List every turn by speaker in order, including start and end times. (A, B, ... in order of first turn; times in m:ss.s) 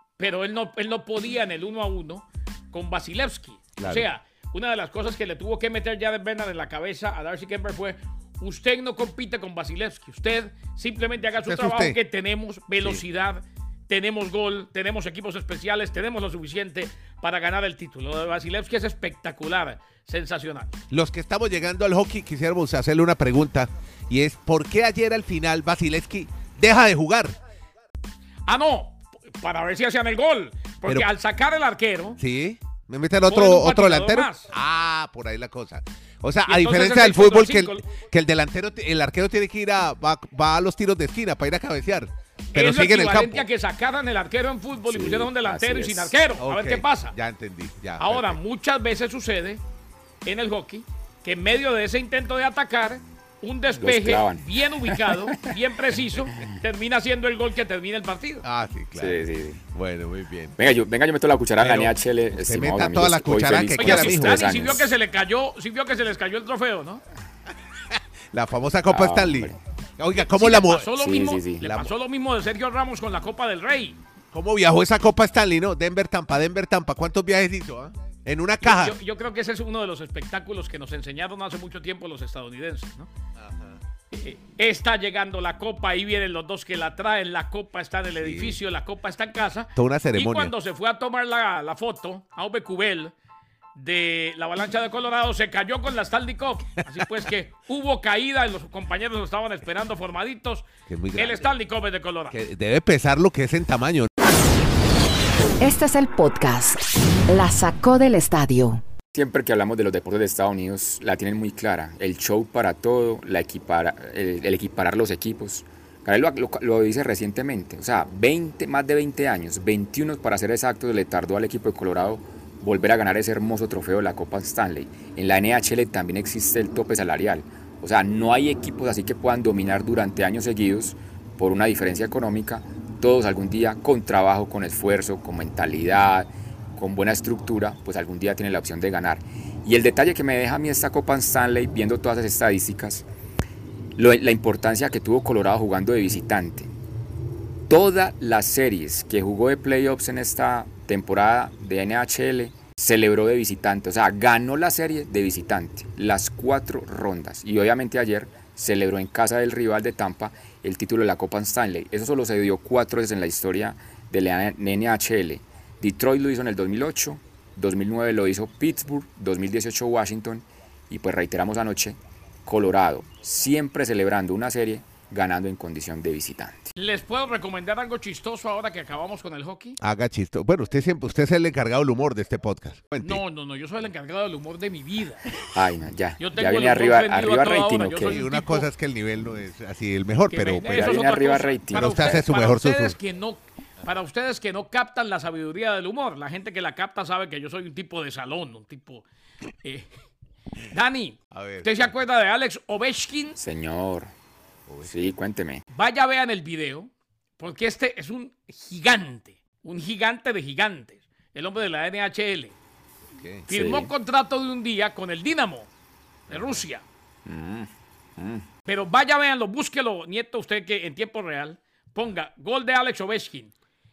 0:00.2-0:20.8 A
0:03.8-0:04.1 B
0:11.4-0:12.0 B
0:20.9-0:27.4 B
0:28.5-0:32.2 A
0:32.2-0:43.5 B
0:33.2-0:34.5 A
0:36.5-0:37.9 A
0:42.5-0:47.1 A
0:44.9-0:46.1 C
0:46.4-0:48.4 B
0:48.0-0:49.6 A
0:50.2-0:58.4 A
0:53.8-0:55.2 C
0:58.4-1:00.6 B
0:58.9-0:59.6 C
1:00.6-1:04.9 C
1:01.6-1:04.8 B
1:03.8-1:07.0 A
1:07.9-1:10.9 B
1:08.9-1:09.6 C
1:10.1-1:14.0 A
1:11.0-1:11.8 C
1:11.6-1:11.9 B
1:14.3-1:18.9 B
1:18.6-1:23.1 A
1:23.4-1:23.8 B
1:24.1-1:33.1 A
1:28.2-1:28.6 B
1:29.8-1:30.5 B
1:33.8-1:42.4 A
1:40.9-1:41.5 B
1:42.3-1:44.1 B
1:45.6-1:48.8 D
1:49.1-2:23.0 C
2:24.0-2:26.7 C
2:27.7-2:56.7 C
2:56.8-2:59.8 A
2:59.8-3:03.2 B
3:03.0-3:05.4 A
3:05.4-3:08.2 C
3:06.2-3:08.6 A
3:08.0-3:11.0 B
3:10.3-3:19.0 A
3:10.6-3:12.2 C
3:11.7-3:13.0 B
3:19.6-3:19.9 A
3:20.7-3:23.4 A
3:21.3-3:21.9 B
3:23.4-3:24.1 C
3:24.7-3:25.1 B
3:24.8-3:25.6 C
3:25.7-3:32.6 A
3:33.1-3:33.5 B
3:33.5-3:35.7 A
3:33.5-3:33.9 C
3:36.3-3:36.6 B
3:36.3-3:36.8 A
3:37.2-3:38.4 C
3:38.6-3:43.5 A